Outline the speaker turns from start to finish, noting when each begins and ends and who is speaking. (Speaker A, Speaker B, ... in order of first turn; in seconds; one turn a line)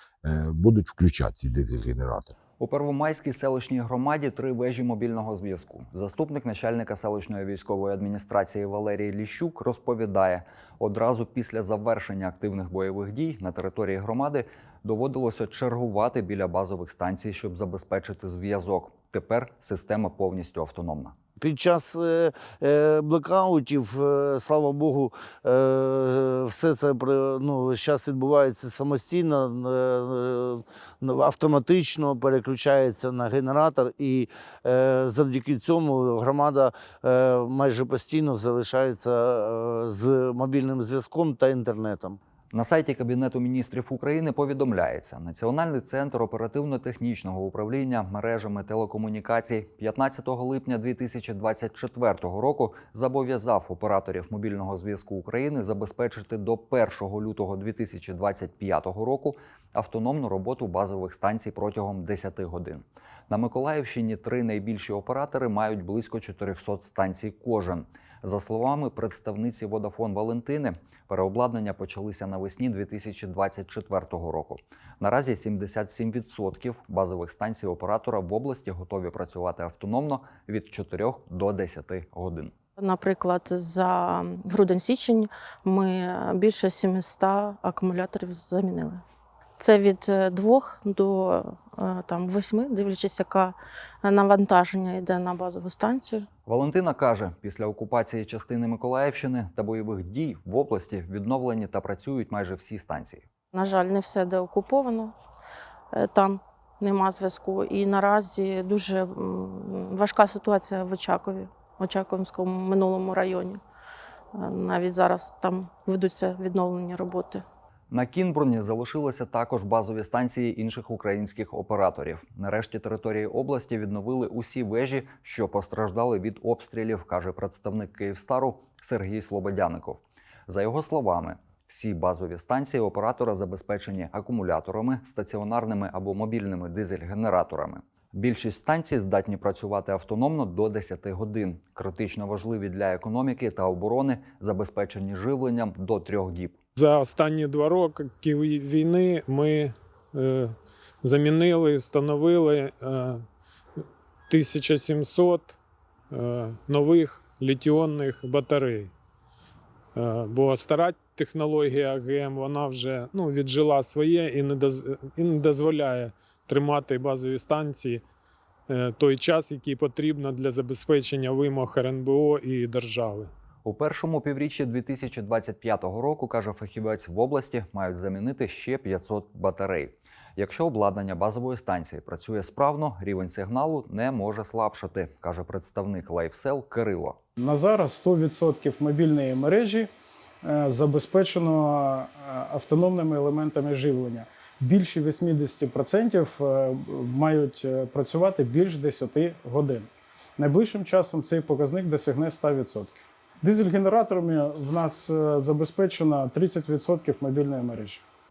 Speaker A: 0.2-2.3
Speaker B: 2.6-21.2
Speaker C: 21.4-42.2
Speaker B: 42.5-82.5
Speaker D: 82.8-89.0
Speaker D: 89.6-96.3
Speaker B: 96.5-103.2
Speaker D: 103.5-105.1
Speaker D: 106.0-113.6
Speaker D: 114.3-117.4
Speaker B: 117.9-146.6
Speaker E: 146.8-150.5
Speaker E: 151.0-153.2
Speaker E: 154.3-155.5
Speaker E: 156.1-158.9
Speaker E: 160.0-168.0
Speaker E: 168.7-173.3
Speaker B: 173.6-187.2
Speaker F: 187.4-189.9
Speaker F: 190.4-208.0